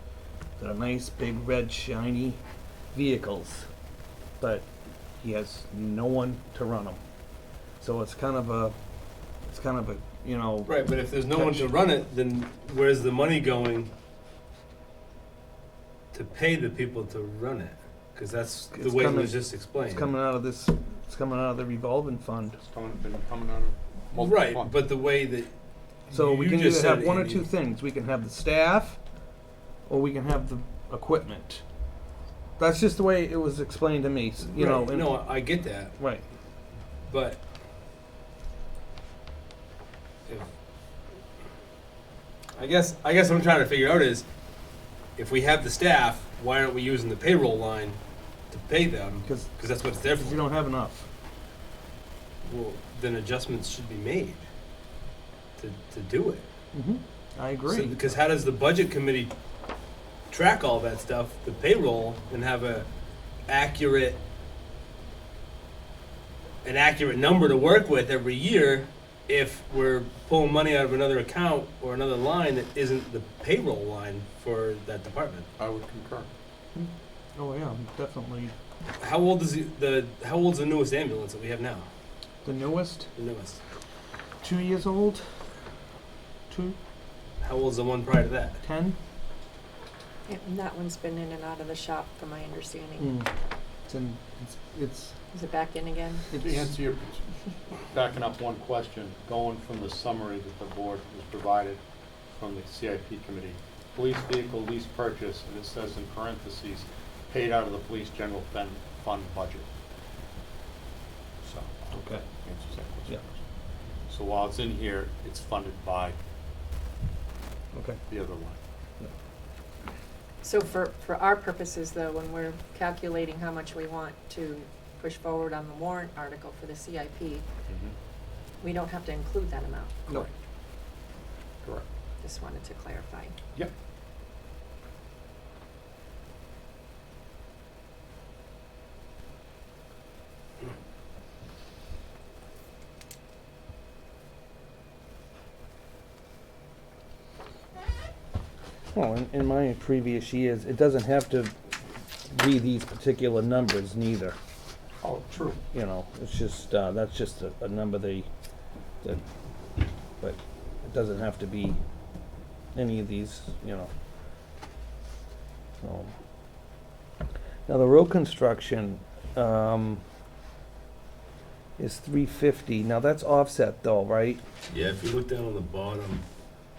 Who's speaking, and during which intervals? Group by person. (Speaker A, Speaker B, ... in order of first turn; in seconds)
Speaker A: 0.6-2.4, 2.9-3.7, 4.4-4.7, 5.2-7.0, 7.8-8.7, 9.5-10.7, 11.3-11.7, 18.7-22.6, 26.1-29.0, 29.9-31.6, 32.6-35.2, 49.2-49.5, 50.2-51.1, 56.7-58.0, 76.7-78.5, 82.4-83.1, 84.4-85.2, 86.5-86.8, 88.6-89.0, 93.0-93.3, 93.9-95.2, 96.3-96.7, 111.9-112.2, 117.7-118.0, 148.9-151.5, 152.3-154.3, 155.7-158.3, 160.2-161.8, 162.8-163.9, 165.8-166.1, 167.7-170.0, 171.8-174.4
Speaker B: 10.7-13.9, 16.1-20.1, 24.1-25.5, 26.1-27.5, 34.5-35.9, 37.0-37.4, 42.6-44.3, 45.2-48.0, 48.5-50.4, 52.4-54.5, 55.6-56.5, 57.7-59.3, 60.3-62.9, 63.5-64.2, 66.6-75.5, 79.0-81.9, 83.2-83.6, 87.4-88.6, 174.7-176.2
Speaker C: 22.6-24.7, 75.6-76.3, 96.3-97.2, 97.9-109.7, 111.4-111.9, 112.4-113.3, 114.1-116.2, 118.1-118.6, 127.7-127.9, 155.0-155.6
Speaker D: 90.3-93.1, 95.3-96.2, 120.4-127.5, 128.6-130.3, 132.2-133.3